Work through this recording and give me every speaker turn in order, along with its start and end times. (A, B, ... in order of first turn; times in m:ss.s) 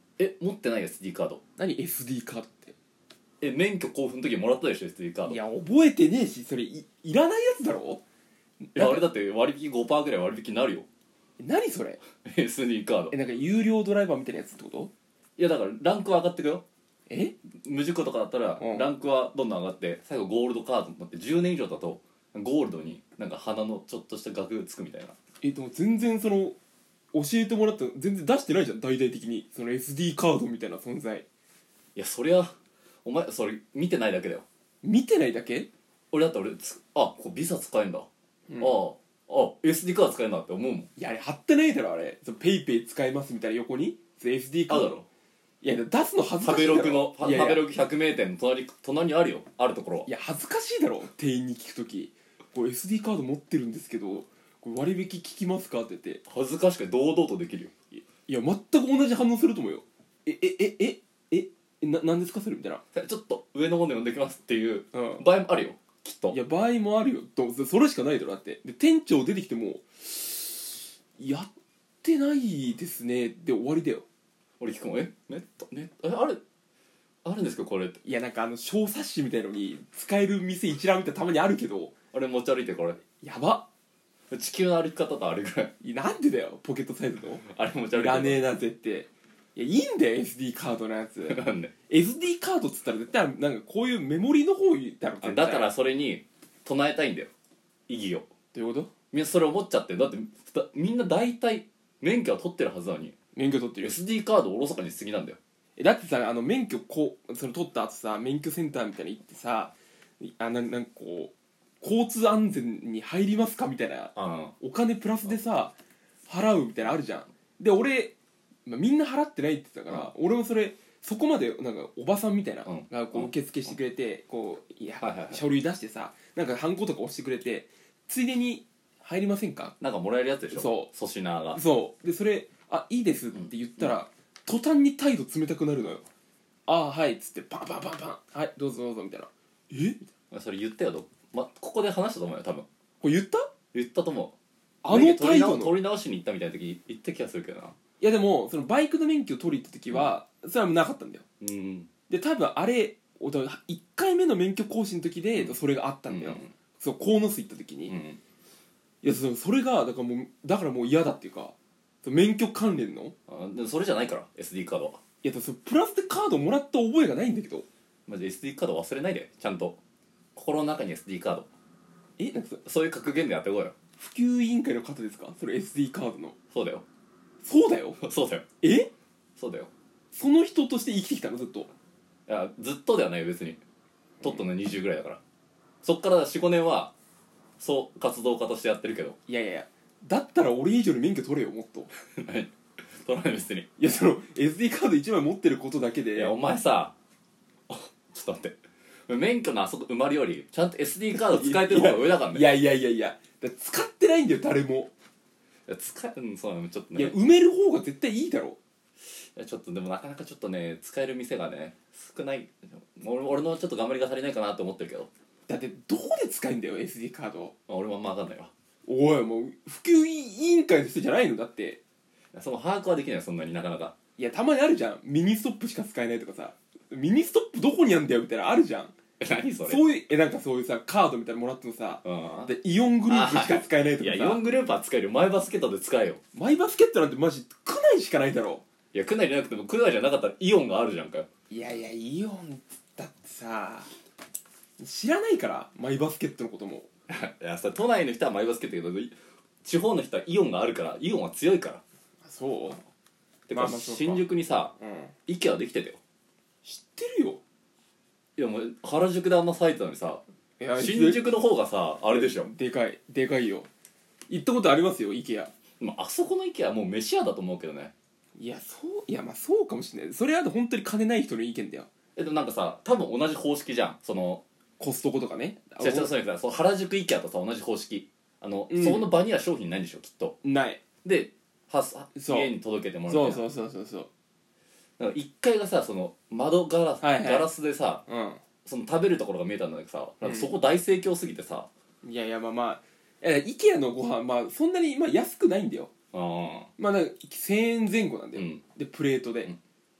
0:00.2-0:01.4 A
0:01.6-0:02.7 B
0:03.4-0:05.4 A
0:05.3-0:08.0 B
0:08.6-0:09.0 B
0:08.8-0:10.9 A
0:11.4-0:12.0 B
0:12.2-0:13.1 A
0:13.1-0:14.9 B
0:15.4-0:16.6 A
0:17.1-0:17.3 B
0:17.6-0:25.1 A
0:18.6-0:18.9 B
0:25.4-0:26.6 B
0:27.1-0:31.2 B
0:32.0-0:32.5 A
0:33.0-0:34.4 A
0:34.8-0:35.7 B
0:36.1-0:38.1 A
0:38.5-0:38.8 B
0:38.6-0:40.9 A
0:41.0-0:44.9 B
0:44.7-0:45.1 A
0:45.6-0:47.6 B
0:46.4-0:50.1 A
0:50.0-0:56.2 B
0:56.3-0:58.0 A
0:58.3-1:02.8 B
1:02.9-1:06.4 A
1:04.9-1:05.3 B
1:06.3-1:11.5 B
1:12.0-1:14.0 B
1:14.6-1:16.4 A
1:17.2-1:18.0 A
1:18.0-1:21.9 B
1:22.1-1:23.0 A
1:23.2-1:23.7 B
1:24.3-1:25.7 A
1:25.8-1:35.7 B
1:27.4-1:28.4 A
1:31.2-1:31.7 A
1:35.2-1:37.3 A
1:37.9-1:38.3 A
1:38.5-1:38.9 B
1:39.1-1:43.1 A
1:43.3-1:44.0 B
1:43.8-1:45.4 A
1:45.8-1:55.7 B
1:54.1-1:54.5 A
1:56.3-1:58.1 B
1:58.6-2:09.7 B
2:02.6-2:03.3 A
2:05.0-2:05.4 A
2:09.8-2:11.6 A
2:10.5-2:10.9 B
2:11.5-2:16.0 B
2:13.3-2:14.0 A
2:16.7-2:20.0 B
2:20.3-2:22.6 A
2:23.0-2:23.5 B
2:23.7-2:24.3 A
2:24.8-2:25.8 B
2:24.9-2:27.7 A
2:28.0-2:31.2 B
2:31.4-2:31.9 A
2:32.1-2:37.9 B
2:36.1-2:36.5 A
2:37.9-2:38.2 A
2:39.0-2:43.1 B
2:43.3-2:45.0 A
2:45.2-2:47.6 B
2:48.1-2:49.8 A
2:50.4-2:51.5 A
2:52.2-2:52.6 B
2:52.6-2:53.7 A
2:54.0-2:56.4 B
2:56.5-2:56.8 A
2:57.4-2:58.0 B
2:58.0-2:58.4 A
2:58.6-2:58.9 B
2:59.4-2:59.7 A
3:00.1-3:01.7 B
3:02.3-3:03.6 A
3:04.2-3:05.2 A
3:05.8-3:06.9 A
3:07.6-3:09.2 A
3:09.3-3:11.9 B
3:12.2-3:13.7 A
3:13.8-3:16.3 B
3:16.1-3:16.9 A
3:17.7-3:18.6 A
3:19.1-3:22.5 A
3:21.1-3:24.9 B
3:25.7-3:27.2 A
3:26.9-3:28.6 B
3:29.1-3:35.1 A
3:35.5-3:37.5 B
3:37.7-3:38.5 A
3:38.9-3:41.8 B
3:42.3-3:43.9 A
3:44.2-3:48.9 B
3:49.2-3:49.8 A
3:49.6-3:54.4 B
3:52.0-3:52.5 A
3:53.1-3:56.2 A
3:56.3-3:58.6 B
3:58.9-4:01.3 A
4:01.5-4:03.9 B
4:04.8-4:06.9 B
4:07.1-4:11.8 A
4:12.2-4:12.8 B
4:13.5-4:14.7 A
4:13.5-4:14.2 B
4:14.8-4:15.1 B
4:15.3-4:16.0 A
4:16.6-4:17.4 B
4:18.4-4:20.2 A
4:20.6-4:21.3 B
4:20.7-4:22.5 A
4:22.1-4:23.7 B
4:24.3-4:25.5 B
4:25.8-4:27.9 A
4:28.4-4:31.9 B
4:32.2-4:34.4 A
4:34.8-4:36.1 B
4:35.8-4:40.4 A
4:38.7-4:39.1 B
4:40.4-4:40.8 B
4:41.0-4:43.5 A
4:42.1-4:42.5 B
4:43.1-4:44.1 B
4:45.0-4:48.0 A
4:47.0-4:47.5 B
4:48.1-4:48.4 B
4:48.6-4:51.7 A
4:50.2-4:50.5 B
4:52.0-4:55.9 B
4:56.1-4:56.7 A
4:56.8-4:59.5 B
4:58.3-4:58.6 A